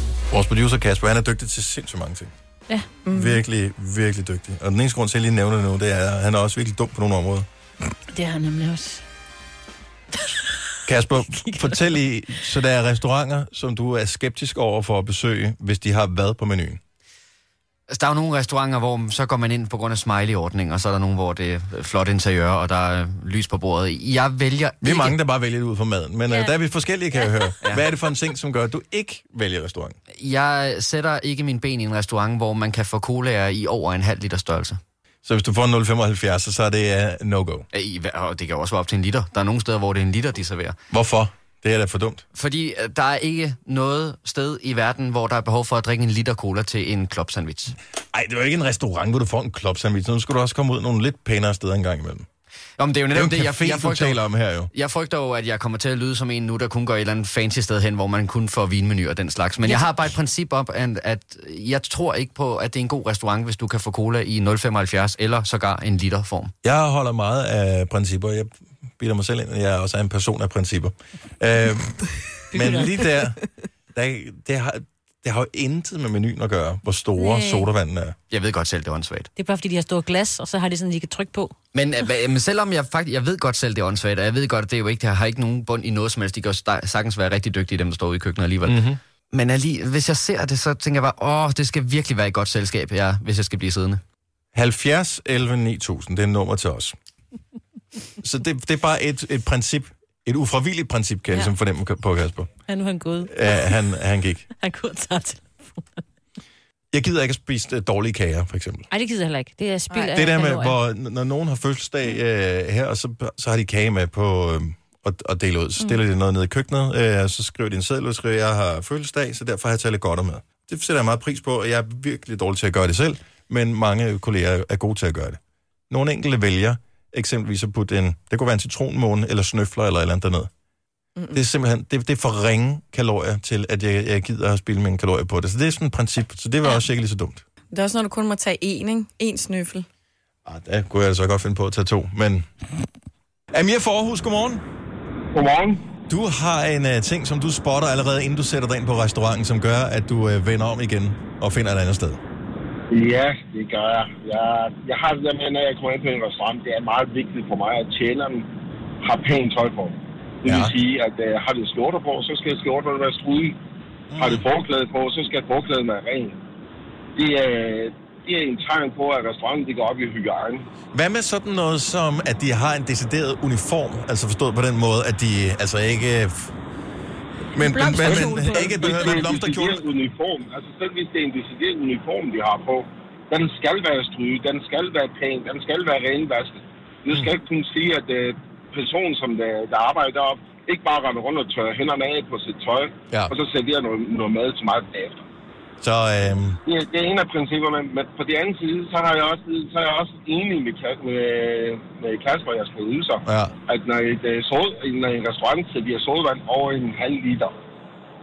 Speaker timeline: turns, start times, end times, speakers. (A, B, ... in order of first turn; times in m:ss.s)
0:00.3-0:02.3 A
0:03.1-0:07.5 A
0:08.1-0:09.0 B
0:10.9-0:16.8 A
0:11.2-0:12.0 B
0:17.9-0:25.2 C
0:24.8-0:30.0 A
0:26.3-0:26.5 B
0:27.2-0:27.5 B
0:30.1-0:34.8 C
0:35.2-0:37.7 A
0:37.7-0:40.8 C
0:40.9-0:42.2 A
0:42.3-0:47.8 C
0:48.1-0:52.3 A
0:52.8-1:06.5 C
0:53.1-0:54.7 A
1:06.6-1:13.4 A
1:12.5-1:13.1 B
1:13.9-1:18.2 A
1:17.2-1:17.7 B
1:18.3-1:19.3 C
1:19.4-1:21.5 B
1:21.7-1:28.8 C
1:28.6-1:29.0 A
1:29.3-1:34.0 C
1:34.6-1:37.0 A
1:38.2-1:42.5 A
1:42.7-1:43.8 B
1:43.2-1:44.5 A
1:44.6-1:46.0 B
1:46.9-1:48.9 A
1:48.9-1:50.8 B
1:50.1-2:05.4 A
2:05.9-2:10.5 A
2:11.3-2:17.4 A
2:17.7-2:19.9 D
2:20.5-2:22.4 A
2:23.5-2:24.6 A
2:25.3-2:25.8 E
2:26.1-2:32.2 A
2:32.9-2:38.5 E
2:39.0-2:43.6 E
2:40.5-2:40.7 A
2:44.1-2:44.4 A
2:44.2-2:46.4 E
2:47.2-2:50.6 E
2:50.9-2:56.5 A
2:57.5-2:59.8 A
2:57.6-2:59.3 B
2:58.1-3:15.2 E
3:15.8-3:16.6 A
3:16.7-3:27.5 E
3:23.3-3:23.5 A